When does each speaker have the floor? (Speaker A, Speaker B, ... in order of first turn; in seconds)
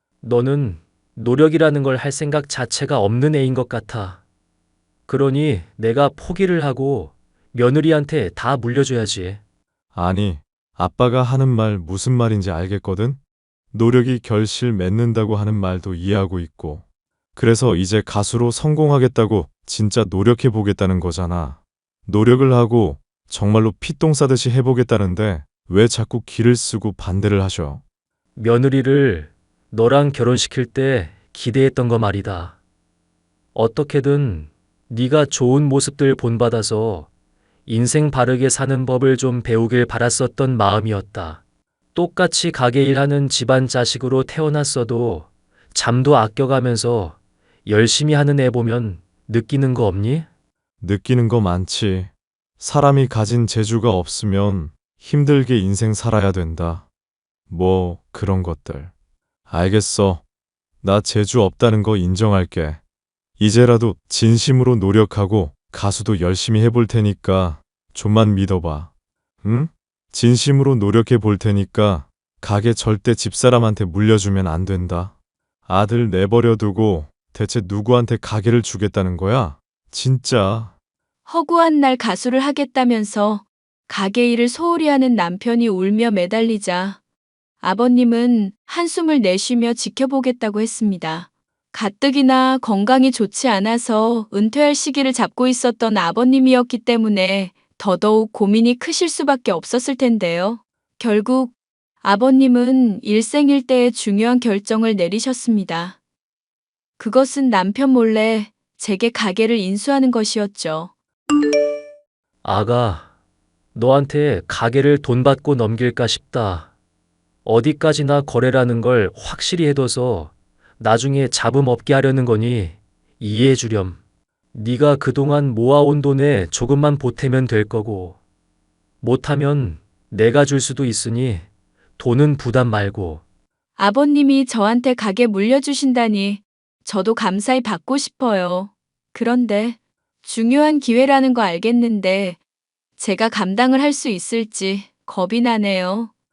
Speaker A: 0.2-4.2, 5.1-9.4, 28.4-32.5, 33.5-37.1, 37.7-41.4, 41.9-50.2, 112.4-113.0, 113.8-116.7, 117.4-124.0, 124.5-128.2, 129.0-131.4, 132.0-133.2
Speaker B: 9.9-13.2, 13.7-16.8, 17.4-27.8, 50.8-56.8, 57.5-58.9, 59.5-60.2, 60.8-62.8, 63.4-68.9, 69.4-75.1, 75.7-80.7
Speaker C: 81.3-87.0, 87.6-106.0, 107.0-110.9, 133.8-142.4, 143.0-146.1